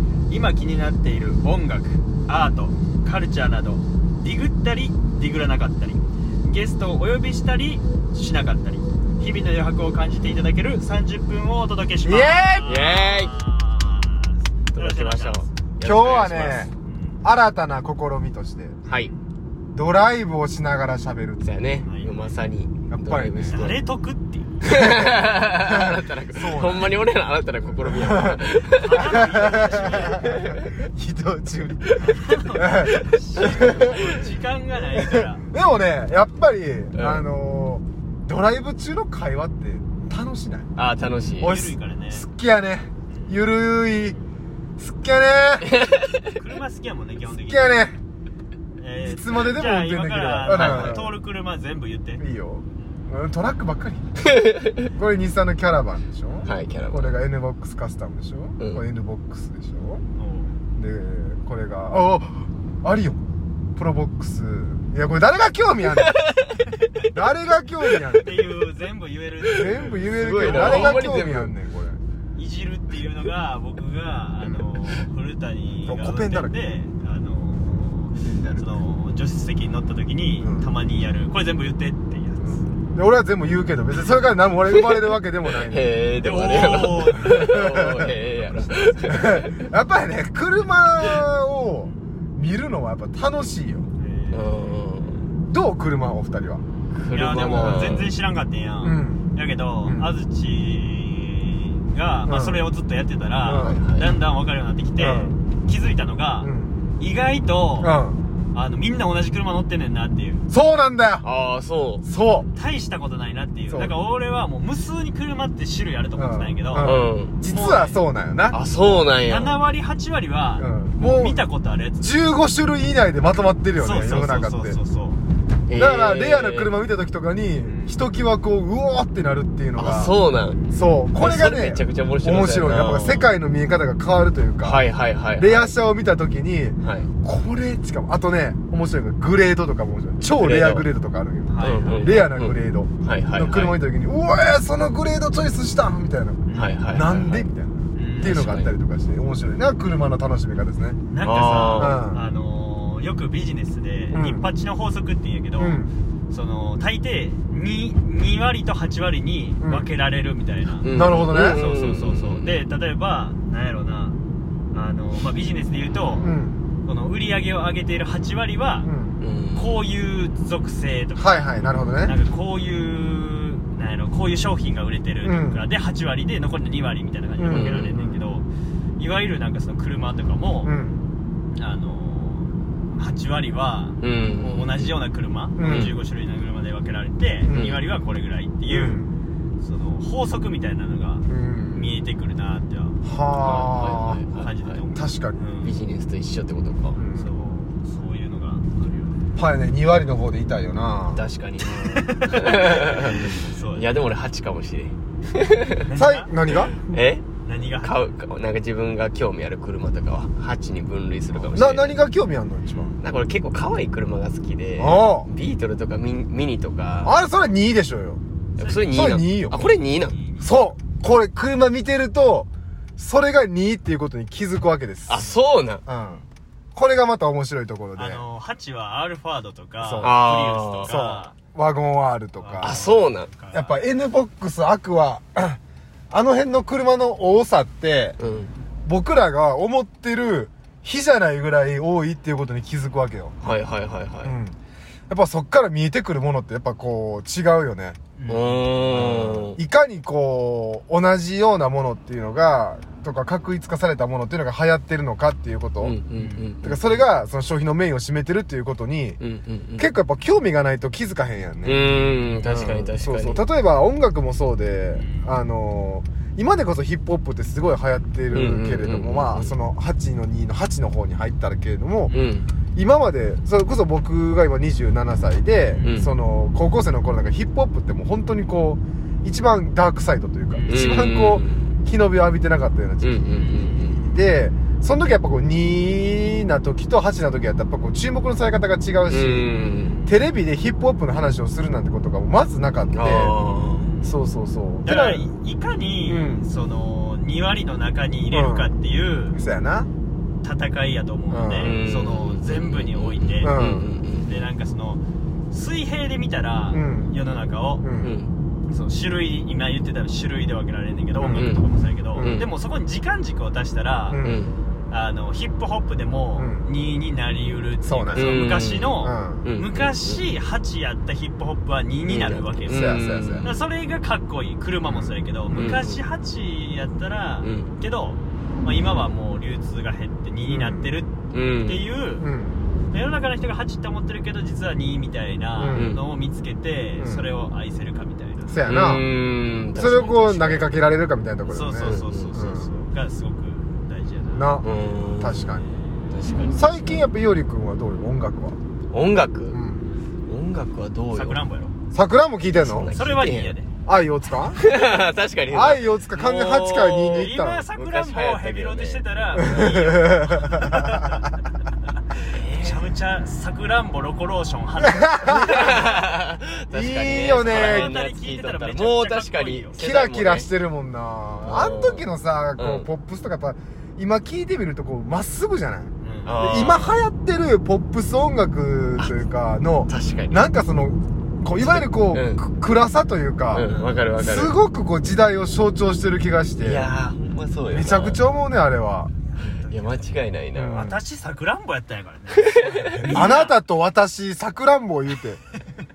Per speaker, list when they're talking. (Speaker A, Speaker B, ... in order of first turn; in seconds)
Speaker A: 0.3-15.5, 16.8-17.2, 18.9-19.2, 21.8-22.4, 23.5-24.5, 28.8-30.2, 31.9-35.4, 41.4-42.3, 43.1-43.4, 46.2-47.9, 48.8-52.2, 60.2-60.6, 68.2-71.2, 72.3-82.7, 86.2-87.8, 88.4-88.9, 94.0-94.7, 97.1-108.0, 108.5-110.4, 112.5-116.9, 117.5-118.0, 119.2-122.2, 123.8-125.2, 127.7-128.0, 141.5-142.3, 146.5-147.0, 147.9-148.5, 151.1-164.2, 164.7-168.9, 169.5-178.5, 179.0-180.7, 181.6-189.0, 189.6-193.0, 194.3-195.7, 197.1-199.3, 201.8-204.0, 205.8-206.3, 207.4-208.1, 218.6-219.1, 220.0-220.7, 227.9-231.4, 232.4-233.8, 248.2-248.7, 256.1-256.5, 264.9-265.4, 272.1-272.4, 275.7-276.1, 280.5-280.9, 283.3-283.8, 293.4-294.2, 294.8-299.4, 300.4-303.6, 304.2-307.9, 308.7-314.2, 314.9-332.3, 332.9-338.6, 341.5-344.6, 351.1-351.7, 352.9-353.7, 357.1-361.3, 362.5-365.9, 367.1-369.8, 376.0-376.4, 383.6-384.0, 389.2-393.6
Speaker B: 12.0-12.7, 15.8-16.7, 17.2-18.8, 19.7-21.5, 22.9-23.7, 24.6-27.1, 27.6-34.0, 34.9-40.7, 41.4-44.2, 44.8-45.8, 47.3-48.0, 49.0-51.2, 52.2-54.3, 54.9-60.0, 60.8-63.2, 63.8-66.2, 67.1-68.5, 69.5-72.0, 75.8-76.5, 78.2-78.7, 80.4-80.7, 82.4-85.9, 86.5-88.2, 88.7-93.9, 95.5-96.6, 97.5-97.8, 98.8-99.3, 99.8-100.1, 102.2-102.6, 103.4-103.8, 105.0-105.4, 106.4-106.9, 107.8-108.2, 110.5-111.3, 112.0-112.5, 116.2-119.0, 120.6-121.4, 122.0-124.8, 125.7-130.2, 130.7-134.8, 135.4-151.1, 151.8-152.2, 154.1-154.4, 155.6-155.9, 159.6-159.9, 160.9-161.6, 166.2-166.6, 168.8-169.2, 171.2-172.2, 175.2-175.7, 177.4-178.3, 180.6-181.0, 185.6-185.9, 187.4-187.8, 188.7-189.1, 191.3-191.9, 193.0-194.2, 194.9-195.4, 196.9-197.3, 199.4-202.1, 205.9-207.0, 211.5-212.9, 214.8-215.3, 217.0-218.2, 218.9-219.6, 220.4-225.3, 225.9-226.2, 226.8-228.2, 229.8-230.2, 230.9-232.9, 233.5-235.6, 236.1-238.2, 238.9-243.5, 244.2-244.6, 245.1-248.0, 248.9-256.0, 256.6-259.2, 259.8-272.1, 272.8-289.5, 290.1-293.4, 294.0-295.3, 296.1-296.5, 298.3-298.7, 299.4-299.9, 301.3-301.8, 303.4-303.9, 306.7-307.2, 307.8-308.2, 311.2-311.4, 312.2-312.5, 314.1-314.5, 316.4-316.7, 317.8-318.5, 319.0-319.5, 322.7-323.5, 330.5-331.0, 332.2-332.6, 335.6-336.0, 337.0-337.3, 338.5-339.0, 339.7-342.8, 344.3-345.7, 346.5-348.6, 349.5-349.9, 351.9-352.9, 353.9-354.7, 355.5-357.6, 359.4-361.2, 364.8-365.9, 366.7-368.0, 369.8-386.9, 387.7-389.1, 390.5-391.0, 392.9-395.4
Speaker C: 12.7-13.4, 14.7-16.7, 21.4-23.8, 24.6-30.8, 32.8-34.2, 37.0-37.2, 40.8-41.6, 45.7-46.3, 50.5-51.0, 54.3-54.9, 56.5-57.2, 65.9-66.6, 69.6-71.5, 84.8-89.7, 94.3-95.2, 96.9-98.2, 103.6-104.1, 111.2-112.0, 116.8-117.4, 118.5-119.6, 125.7-126.7, 129.8-130.6, 131.2-133.3, 134.6-135.7, 136.8-137.1, 140.3-140.9, 141.6-143.8, 146.5-147.5, 148.2-148.7, 151.2-152.0, 160.8-162.6, 169.2-169.8, 177.5-177.9, 184.0-184.9, 185.6-186.0, 187.5-187.8, 193.4-194.8, 195.6-197.0, 201.1-205.8, 206.8-207.2, 207.8-212.0, 213.0-217.2, 218.6-220.2, 225.1-225.8, 230.0-230.9, 232.6-233.3, 238.2-238.5, 243.4-244.4, 248.3-249.6, 255.8-257.0, 259.2-259.9, 261.6-263.5, 268.3-269.5, 272.1-272.5, 275.8-276.1, 280.7-281.7, 283.0-284.1, 289.1-290.0, 292.9-293.9, 301.6-304.4, 308.0-308.3, 311.4-311.6, 312.2-312.5, 314.2-314.5, 318.1-320.3, 322.1-323.5, 325.5-326.0, 327.4-327.7, 331.3-331.8, 335.7-336.0, 338.7-340.8, 341.8-342.3, 344.6-347.1, 348.9-349.6, 350.3-351.4, 352.5-353.6, 354.5-360.1, 362.2-362.9, 365.3-370.5, 371.4-372.1, 372.6-372.9, 376.2-377.0, 379.9-380.5, 381.6-382.4, 383.5-384.6, 386.6-388.2, 389.7-390.9, 392.5-393.4